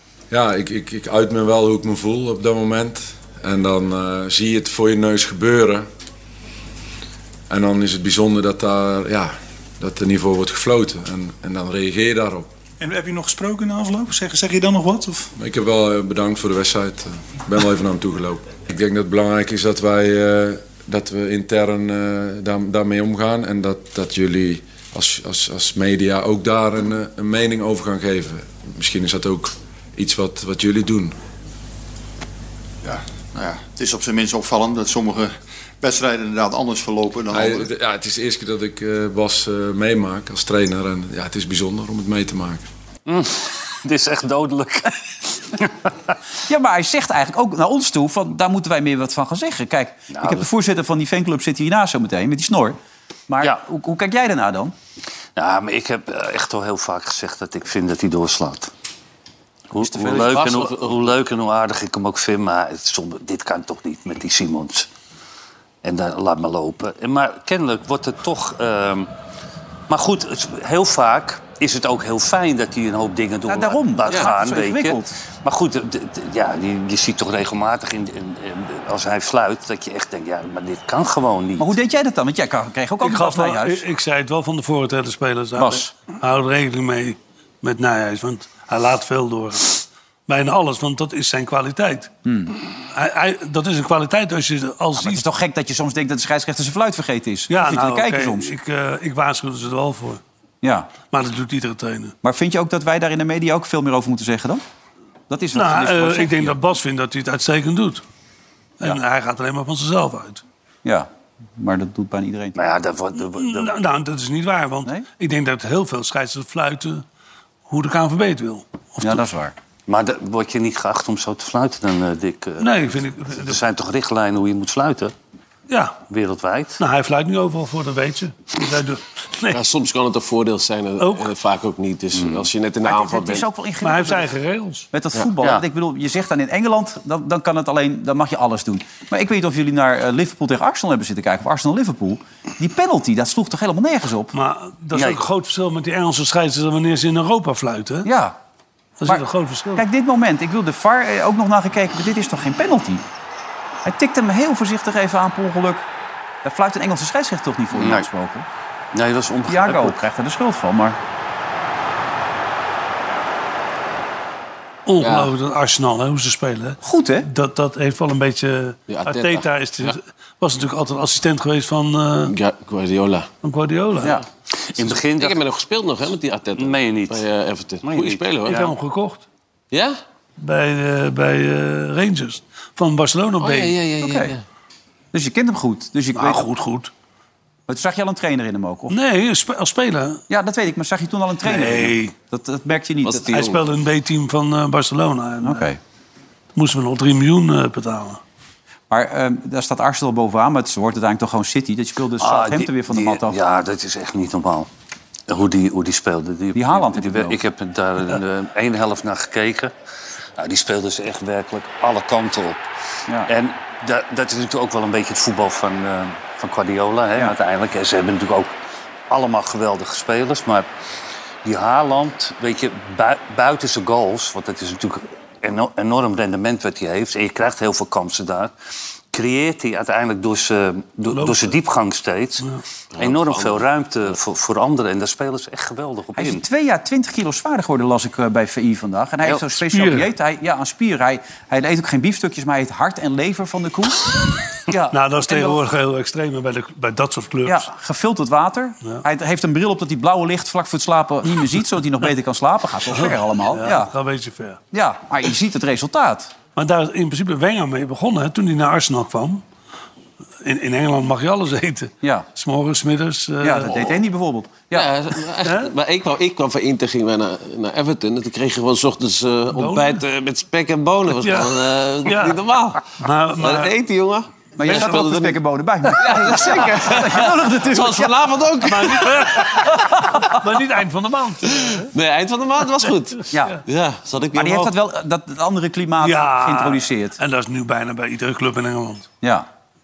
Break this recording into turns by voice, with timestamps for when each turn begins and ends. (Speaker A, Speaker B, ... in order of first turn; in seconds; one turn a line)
Speaker A: 0.3-5.8
Speaker A: 7.5-12.5
Speaker B: 12.8-15.3
Speaker A: 15.3-31.2
Speaker C: 32.8-37.7
Speaker A: 37.3-42.6
Speaker D: 43.0-45.9
Speaker E: 46.5-52.8
Speaker D: 50.1-50.5
Speaker E: 53.3-54.7
Speaker D: 55.4-58.7
Speaker D: 59.7-64.9
Speaker E: 59.8-60.4
Speaker F: 59.9-60.9
Speaker D: 65.8-69.1
Speaker D: 69.9-81.7
Speaker E: 73.5-75.1
Speaker E: 81.6-83.8
Speaker G: 83.0-92.1
Speaker E: 85.6-85.9
Speaker E: 92.2-92.5
Speaker G: 92.9-95.2
Speaker E: 95.0-98.5
Speaker G: 97.5-100.2
Speaker E: 100.6-101.0
Speaker G: 101.0-102.1
Speaker E: 102.2-104.6
Speaker E: 105.3-106.5
Speaker G: 105.5-108.0
Speaker G: 108.8-110.4
Speaker E: 110.8-112.5
Speaker D: 112.5-113.8
Speaker G: 113.3-117.0
Speaker G: 117.7-119.2
Speaker E: 119.0-119.5
Speaker D: 119.9-125.1
Speaker G: 122.6-123.6
Speaker G: 125.7-126.0
Speaker D: 126.1-126.8
Speaker G: 126.8-129.6
Speaker F: 129.5-133.4
Speaker G: 131.0-131.3
Speaker D: 132.1-132.5
Speaker E: 132.8-134.3
Speaker G: 133.8-134.9
Speaker E: 134.9-144.3
Speaker G: 144.3-148.1
Speaker D: 144.9-145.2
Speaker E: 148.0-148.3
Speaker G: 149.0-149.8
Speaker E: 149.8-153.0
Speaker E: 153.8-155.8
Speaker E: 156.4-158.4
Speaker D: 157.7-158.1
Speaker D: 158.9-160.0
Speaker E: 159.5-161.0
Speaker G: 164.8-172.3
Speaker F: 165.0-165.3
Speaker E: 166.8-167.3
Speaker F: 168.9-169.9
Speaker F: 172.3-173.3
Speaker G: 173.4-174.2
Speaker D: 174.7-175.4
Speaker F: 174.8-178.7
Speaker D: 176.6-177.2
Speaker D: 177.8-178.7
Speaker G: 178.5-179.2
Speaker F: 179.7-180.0
Speaker G: 180.4-183.8
Speaker F: 183.4-184.4
Speaker E: 184.0-184.3
Speaker E: 185.1-186.4
Speaker G: 186.1-186.9
Speaker E: 187.7-188.9
Speaker G: 188.9-190.2
Speaker E: 190.3-193.3
Speaker G: 191.4-192.1
Speaker F: 193.0-193.6
Speaker G: 193.3-195.6
Speaker E: 195.4-195.8
Speaker G: 196.5-198.2
Speaker E: 198.9-203.4
Speaker D: 202.2-204.7
Speaker D: 205.3-209.7
Speaker E: 206.5-207.4
Speaker D: 210.4-212.6
Speaker D: 213.2-218.5
Speaker D: 219.1-220.7
Speaker D: 221.4-228.5
Speaker D: 229.1-232.4
Speaker G: 231.1-231.5
Speaker F: 232.9-233.7
Speaker D: 233.0-236.4
Speaker E: 236.2-244.1
Speaker G: 239.7-240.1
Speaker E: 244.7-245.6
Speaker G: 244.9-247.6
Speaker E: 247.4-253.9
Speaker G: 252.9-254.6
Speaker E: 254.7-256.3
Speaker G: 256.6-259.4
Speaker G: 260.4-263.8
Speaker E: 263.4-264.9
Speaker F: 263.7-264.0
Speaker F: 264.7-275.4
Speaker G: 265.4-265.7
Speaker G: 269.5-270.0
Speaker G: 271.2-272.4
Speaker G: 273.0-273.7
Speaker E: 274.6-280.3
Speaker G: 274.7-275.0
Speaker F: 275.9-279.7
Speaker G: 278.7-279.6
Speaker G: 280.2-281.9
Speaker F: 281.4-284.7
Speaker E: 283.3-283.6
Speaker E: 284.3-287.2
Speaker G: 286.0-289.1
Speaker E: 289.2-289.5